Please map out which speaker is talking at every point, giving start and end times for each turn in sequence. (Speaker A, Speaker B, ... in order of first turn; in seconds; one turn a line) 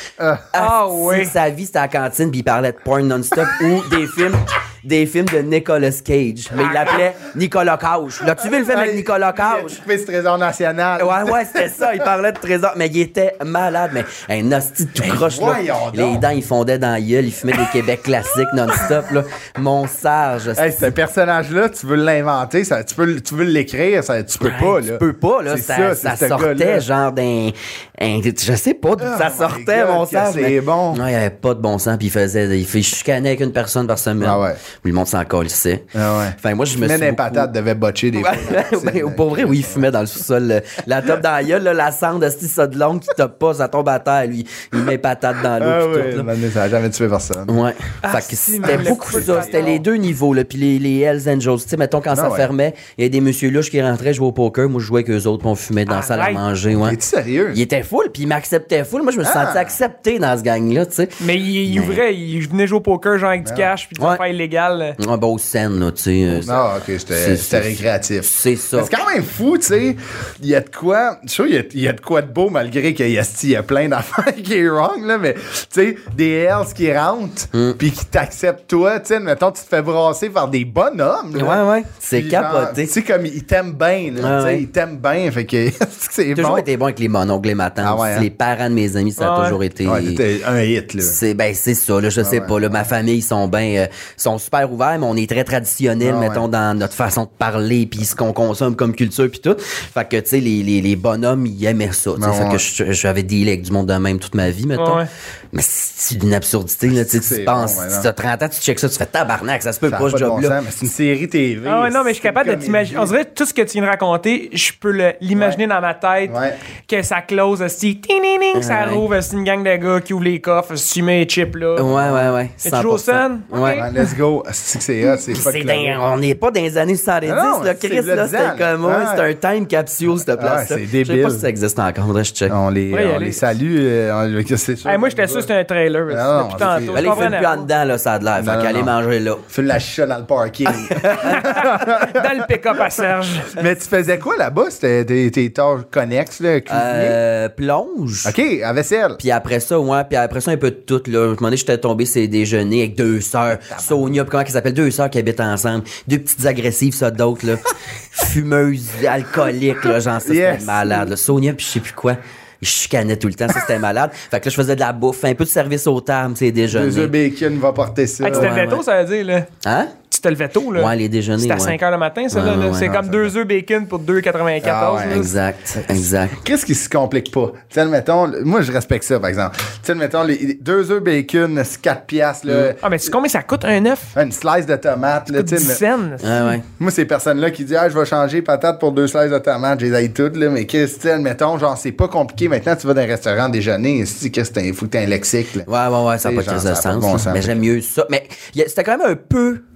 Speaker A: 0.2-0.5
Speaker B: 0.5-9.8
Speaker C: 0.6-1.3
Speaker C: 6.6-7.0
Speaker A: 8.6-12.0
Speaker B: 11.0-20.6
Speaker A: 15.0-16.3
Speaker A: 20.5-26.9
Speaker B: 24.4-35.9
Speaker A: 29.0-31.0
Speaker A: 34.2-34.6
Speaker A: 35.9-39.9
Speaker B: 36.4-37.5
Speaker B: 38.1-46.3
Speaker A: 45.6-47.5
Speaker B: 47.5-57.0
Speaker C: 48.0-49.8
Speaker A: 48.7-49.7
Speaker A: 52.1-52.5
Speaker C: 55.9-56.4
Speaker A: 56.8-57.6
Speaker B: 57.5-61.1
Speaker A: 59.2-59.8
Speaker C: 61.2-65.0
Speaker B: 61.7-62.0
Speaker B: 65.0-68.9
Speaker A: 66.4-86.7
Speaker B: 77.5-77.8
Speaker B: 81.3-82.9
Speaker B: 84.2-84.6
Speaker B: 86.3-90.2
Speaker A: 87.8-88.3
Speaker C: 89.2-89.6
Speaker A: 89.8-91.2
Speaker B: 91.0-110.6
Speaker A: 92.2-92.8
Speaker A: 96.0-96.4
Speaker A: 102.2-102.6
Speaker C: 104.8-105.1
Speaker A: 107.0-108.1
Speaker A: 109.9-113.1
Speaker C: 111.7-121.9
Speaker A: 116.2-116.5
Speaker B: 118.5-119.0
Speaker B: 121.8-123.9
Speaker A: 121.9-122.3
Speaker C: 122.6-123.9
Speaker A: 123.7-126.0
Speaker B: 125.3-132.6
Speaker A: 127.2-129.2
Speaker A: 130.3-131.4
Speaker A: 132.5-135.5
Speaker C: 132.9-133.4
Speaker C: 134.8-137.6
Speaker A: 136.1-137.3
Speaker B: 136.6-139.4
Speaker A: 138.4-138.9
Speaker A: 139.5-142.4
Speaker B: 140.7-141.4
Speaker C: 141.2-143.6
Speaker A: 143.5-147.2
Speaker B: 146.7-148.3
Speaker A: 148.2-149.2
Speaker B: 149.2-167.1
Speaker A: 153.7-154.0
Speaker A: 160.2-161.1
Speaker A: 166.7-168.5
Speaker C: 168.2-169.5
Speaker B: 168.3-168.8
Speaker B: 169.6-169.9
Speaker C: 170.1-175.3
Speaker B: 170.7-171.8
Speaker B: 172.3-173.0
Speaker A: 172.8-173.3
Speaker A: 174.6-175.3
Speaker B: 175.1-176.4
Speaker A: 175.8-182.8
Speaker C: 182.8-184.1
Speaker A: 184.2-185.8
Speaker C: 185.3-186.4
Speaker B: 186.2-186.6
Speaker A: 186.8-195.7
Speaker B: 195.7-199.6
Speaker A: 196.2-197.6